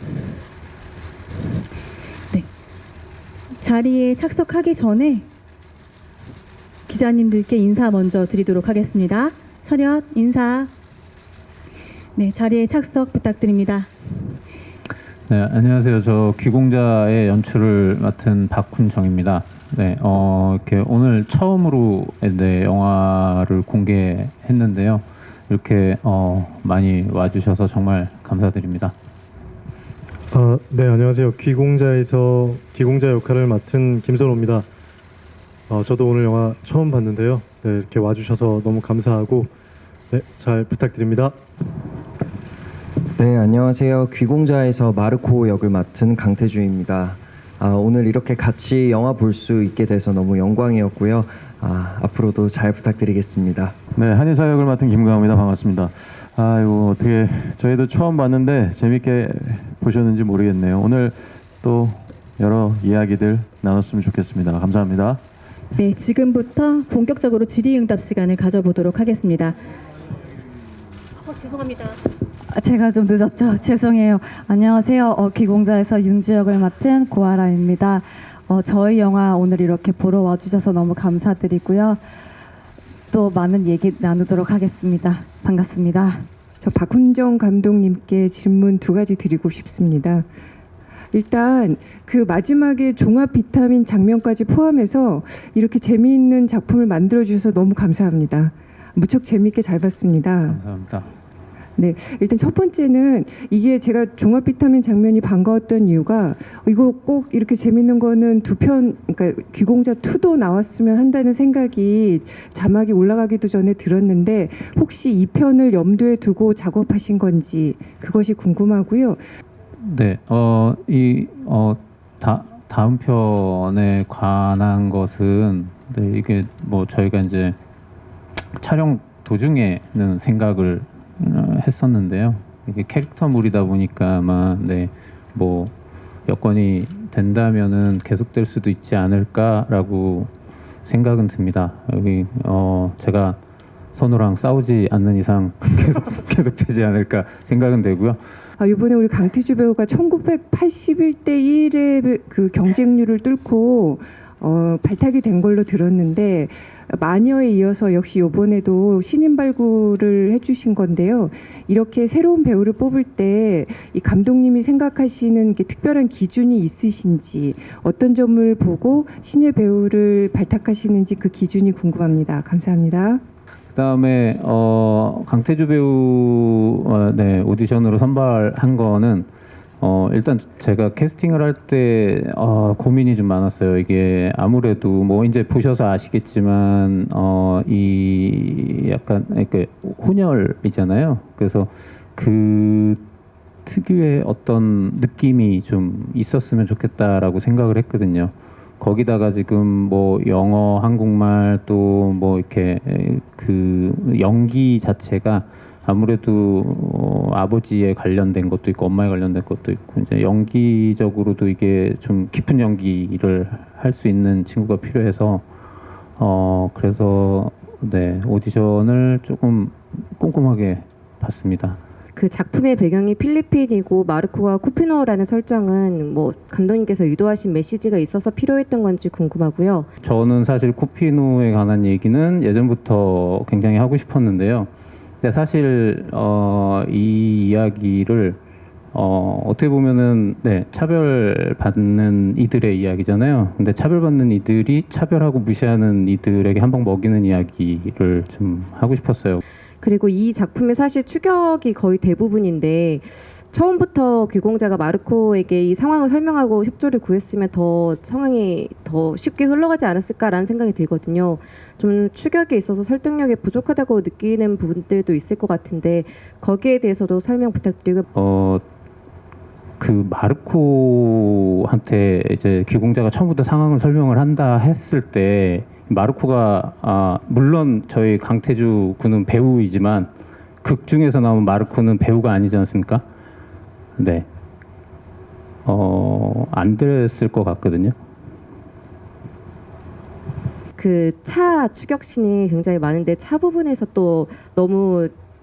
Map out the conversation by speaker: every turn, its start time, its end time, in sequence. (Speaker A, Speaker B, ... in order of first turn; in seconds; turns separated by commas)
Speaker A: 3.6-5.2, Speaker A: 6.9-10.7, Speaker A: 12.2-13.9, Speaker B: 15.3-28.9, Speaker C: 30.3-34.7, Speaker C: 35.7-39.5, Speaker C: 40.1-41.4, Speaker D: 43.1-53.8, Speaker E: 53.9-65.2, Speaker A: 65.7-69.6, Speaker F: 72.5-82.0, Speaker F: 83.1-86.3, Speaker G: 86.6-90.3, Speaker G: 91.1-100.6, Speaker B: 100.4-101.1, Speaker G: 101.8-119.2, Speaker B: 119.8-127.6, Speaker B: 128.5-135.7, Speaker B: 136.2-140.3, Speaker B: 140.8-143.4, Speaker B: 143.9-148.2, Speaker G: 148.6-173.2, Speaker B: 173.7-179.3, Speaker B: 179.8-193.0, Speaker B: 193.7-215.4, Speaker B: 216.2-221.8, Speaker H: 222.2-229.9, Speaker B: 230.0-234.7, Speaker B: 235.2-238.4, Speaker B: 238.9-249.4, Speaker H: 249.8-268.0, Speaker B: 268.1-268.6, Speaker B: 269.8-280.1, Speaker B: 280.6-283.0, Speaker B: 284.0-284.3, Speaker B: 285.6-287.9, Speaker H: 290.8-295.1